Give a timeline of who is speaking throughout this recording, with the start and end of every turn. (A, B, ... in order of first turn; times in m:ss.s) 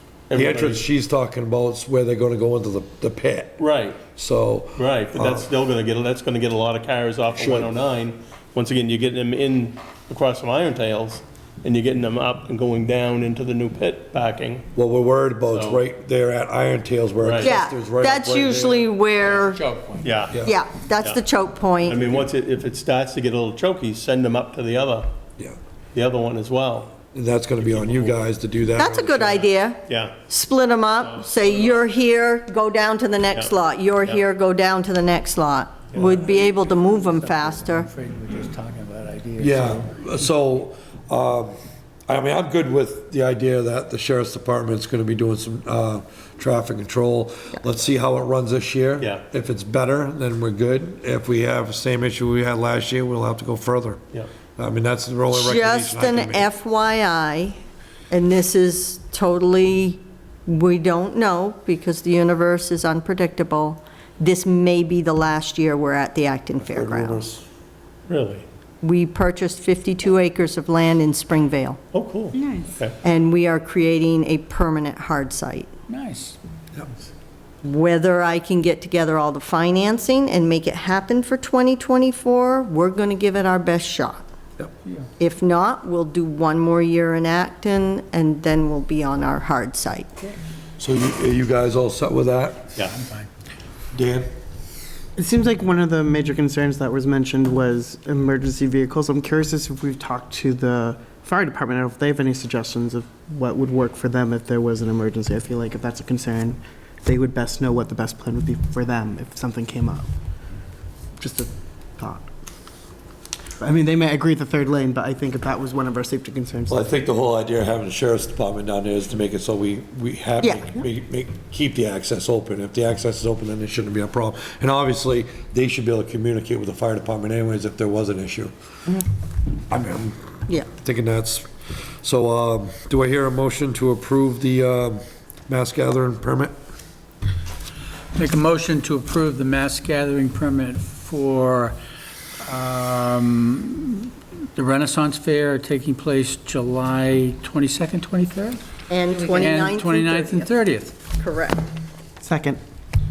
0:00.3-0:00.8 A
0:00.3-0:03.6 B
0:03.6-0:04.0 A
0:04.2-0:05.5 B
0:04.8-0:14.7 A
0:07.3-0:07.7 B
0:14.8-0:18.9 B
0:15.5-0:15.8 A
0:17.2-0:17.5 A
0:17.4-0:19.6 C
0:19.2-0:20.1 D
0:20.0-0:20.4 A
0:20.4-0:22.2 C
0:21.8-0:25.1 A
0:25.9-0:27.0 A
0:27.1-0:29.4 B
0:27.6-0:28.2 A
0:28.8-0:37.9 C
0:29.9-0:30.1 A
0:31.2-0:31.7 A
0:36.0-0:39.9 D
0:39.4-0:41.5 B
0:42.1-0:54.0 B
0:54.6-0:56.5 B
0:55.3-0:57.6 C
0:58.1-1:07.3 C
1:06.6-1:07.4 B
1:08.1-1:08.4 A
1:08.8-1:11.8 C
1:11.9-1:13.0 A
1:13.0-1:15.7 C
1:15.9-1:16.4 D
1:17.6-1:24.3 C
1:25.2-1:30.1 C
1:30.8-1:32.7 B
1:32.9-1:33.3 D
1:33.9-1:34.3 B
1:35.2-1:50.1 E
1:51.2-1:52.3 E
1:53.6-1:56.9 E
1:56.7-2:08.5 B
2:09.7-2:10.2 B
2:10.7-2:11.5 B
2:12.0-2:16.5 B
2:18.2-2:21.8 D
2:22.4-2:28.6 D
2:28.9-2:30.5 C
2:29.2-2:30.9 D
2:31.2-2:31.7 C
2:32.2-2:32.6 E